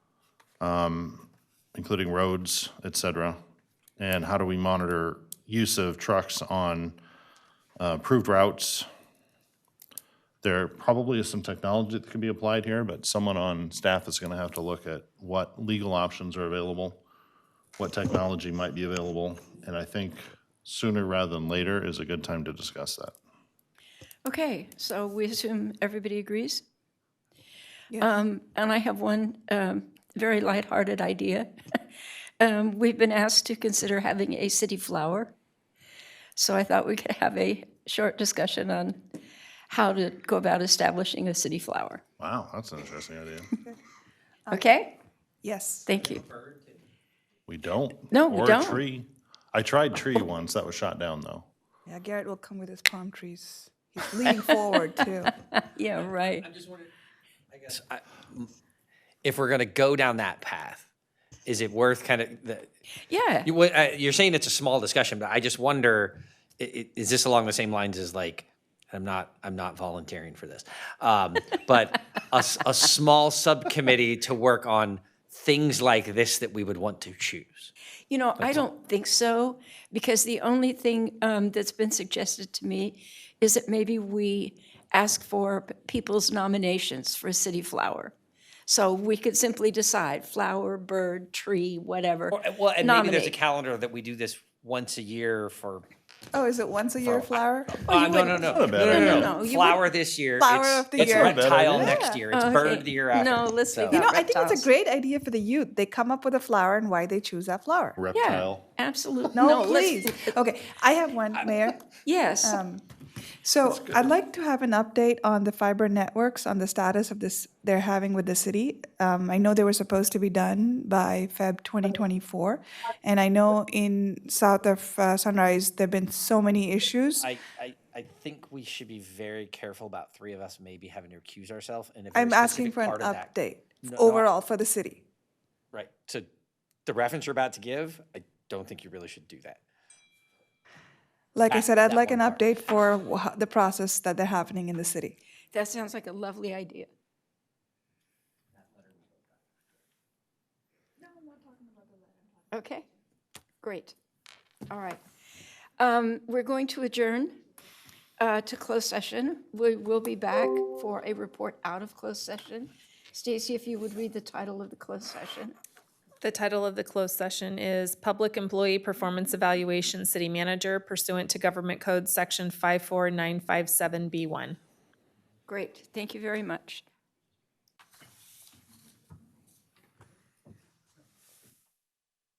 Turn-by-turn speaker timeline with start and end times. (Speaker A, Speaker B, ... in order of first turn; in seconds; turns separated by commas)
Speaker A: 0.6-3.4, Speaker A: 4.0-7.0, Speaker A: 7.8-8.9, Speaker A: 10.4-17.0, Speaker A: 17.8-23.1, Speaker B: 24.2-26.6, Speaker B: 28.0-31.8, Speaker B: 32.4-35.4, Speaker B: 36.4-39.0, Speaker B: 39.7-42.0, Speaker A: 42.2-43.5, Speaker C: 44.5-44.7, Speaker B: 44.5-45.0, Speaker C: 45.4-45.9, Speaker B: 45.9-46.2, Speaker D: 46.3-46.6, Speaker A: 47.5-51.5, Speaker B: 48.1-48.8, Speaker C: 51.9-55.4, Speaker B: 55.5-56.5, Speaker D: 56.3-56.9, Speaker D: 57.5-58.5, Speaker D: 59.2-60.9, Speaker D: 61.5-62.7, Speaker B: 63.1-63.5, Speaker D: 63.4-77.7, Speaker B: 78.1-88.1, Speaker B: 88.7-93.4, Speaker D: 92.3-95.9, Speaker C: 96.3-98.6, Speaker D: 97.1-104.1, Speaker A: 98.5-99.4, Speaker B: 98.9-99.8, Speaker C: 100.4-102.2, Speaker A: 101.0-102.0, Speaker B: 102.3-104.7, Speaker C: 103.9-108.0, Speaker A: 108.0-108.7, Speaker B: 108.1-110.3, Speaker C: 109.3-111.8, Speaker B: 112.0-112.6, Speaker C: 112.4-112.8, Speaker C: 113.4-127.3, Speaker D: 127.2-133.3, Speaker C: 132.1-135.0, Speaker D: 133.8-134.3, Speaker D: 135.7-136.3, Speaker D: 136.9-139.6, Speaker C: 141.3-145.2, Speaker D: 141.5-142.4, Speaker B: 145.5-146.9, Speaker B: 152.5-152.9, Speaker B: 153.6-153.9, Speaker B: 154.7-155.0, Speaker B: 155.8-157.4, Speaker B: 158.2-165.6, Speaker E: 166.2-174.6, Speaker B: 175.5-176.8